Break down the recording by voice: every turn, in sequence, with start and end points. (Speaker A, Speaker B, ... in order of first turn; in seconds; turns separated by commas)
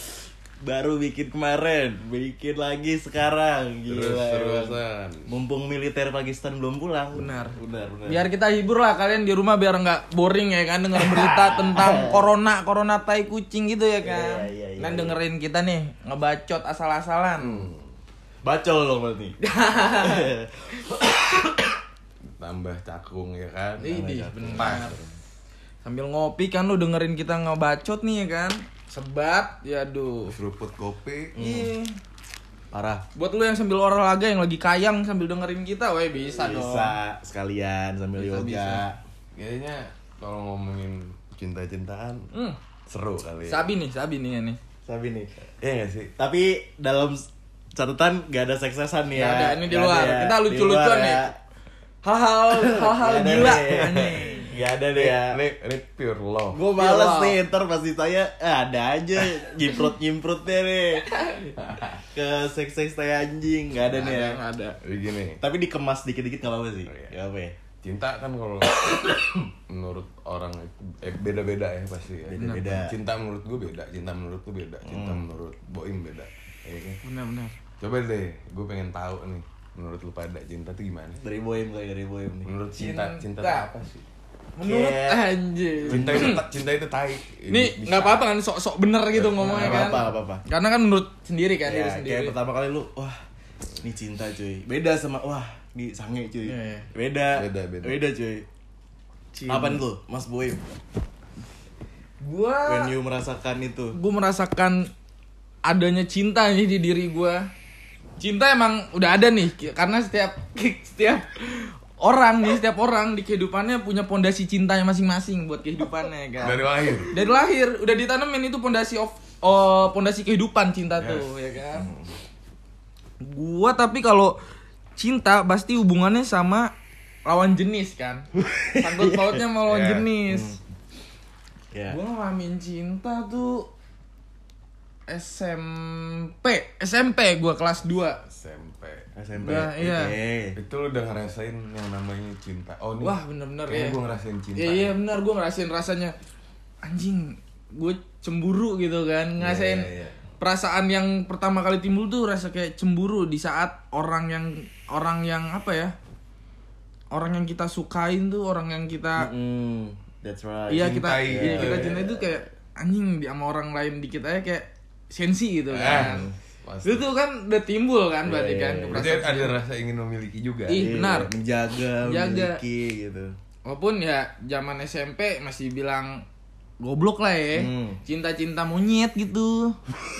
Speaker A: 0.6-4.8, Speaker B: 3.9-5.3, Speaker A: 5.3-8.3, Speaker C: 7.1-7.6, Speaker C: 8.1-17.7, Speaker A: 10.9-12.2, Speaker A: 14.0-15.2, Speaker B: 17.4-17.9, Speaker A: 18.4-21.3, Speaker C: 19.4-20.3, Speaker B: 22.4-23.9, Speaker A: 23.8-25.1, Speaker C: 23.8-25.0, Speaker B: 24.5-25.0, Speaker C: 25.8-30.3, Speaker B: 30.2-31.4, Speaker A: 31.4-31.7, Speaker C: 31.4-31.9, Speaker A: 32.7-33.0, Speaker C: 33.1-37.0, Speaker A: 36.3-39.0, Speaker C: 38.2-38.8, Speaker B: 39.3-42.3, Speaker C: 42.3-42.6, Speaker B: 42.9-43.7, Speaker C: 43.5-44.6, Speaker A: 44.9-45.3, Speaker B: 45.6-46.1, Speaker A: 46.2-51.4, Speaker C: 49.1-51.3, Speaker C: 52.0-54.5, Speaker A: 52.5-55.4, Speaker B: 53.2-54.4, Speaker B: 54.9-56.6, Speaker A: 56.5-61.2, Speaker C: 56.7-57.4, Speaker A: 62.1-64.4, Speaker C: 63.9-64.8, Speaker B: 64.8-65.4, Speaker A: 65.4-67.6, Speaker B: 66.8-67.1, Speaker B: 67.8-77.0, Speaker A: 72.3-73.0, Speaker C: 72.4-72.7, Speaker A: 74.8-75.3, Speaker C: 77.0-77.5, Speaker B: 77.8-81.2, Speaker A: 81.2-82.5, Speaker B: 82.5-84.0, Speaker C: 82.8-83.7, Speaker C: 84.6-86.5, Speaker A: 84.6-86.4, Speaker B: 85.8-88.3, Speaker C: 87.5-92.4, Speaker B: 89.1-90.1, Speaker A: 89.4-90.4, Speaker A: 91.6-93.2, Speaker A: 93.8-98.5, Speaker C: 96.5-96.9, Speaker B: 97.3-98.0, Speaker C: 99.3-99.8, Speaker A: 99.5-100.6, Speaker C: 102.2-102.9, Speaker A: 102.7-104.0, Speaker C: 103.9-104.9, Speaker C: 105.7-107.5, Speaker C: 108.2-121.9, Speaker B: 116.4-117.2, Speaker B: 121.0-121.3, Speaker A: 121.7-122.1, Speaker C: 123.2-124.4, Speaker C: 125.0-126.7, Speaker C: 127.3-130.6, Speaker A: 128.4-129.4, Speaker B: 129.6-130.1, Speaker A: 130.3-130.6, Speaker A: 131.7-132.0, Speaker C: 131.9-133.7, Speaker C: 135.1-138.2, Speaker B: 138.2-139.1, Speaker A: 139.2-140.6, Speaker C: 139.4-140.1, Speaker B: 140.6-145.0, Speaker C: 143.0-144.0, Speaker C: 144.6-146.1, Speaker C: 146.8-155.9, Speaker B: 149.4-150.2, Speaker C: 157.1-159.3, Speaker A: 159.2-162.4, Speaker C: 160.7-166.3, Speaker B: 160.8-162.0, Speaker B: 165.7-167.1, Speaker A: 165.8-166.3, Speaker C: 166.8-169.6, Speaker A: 168.2-169.1, Speaker B: 168.9-170.8, Speaker C: 170.7-171.3, Speaker A: 170.7-173.3, Speaker C: 172.0-172.6, Speaker C: 173.7-176.2, Speaker C: 176.8-179.8, Speaker A: 177.5-178.0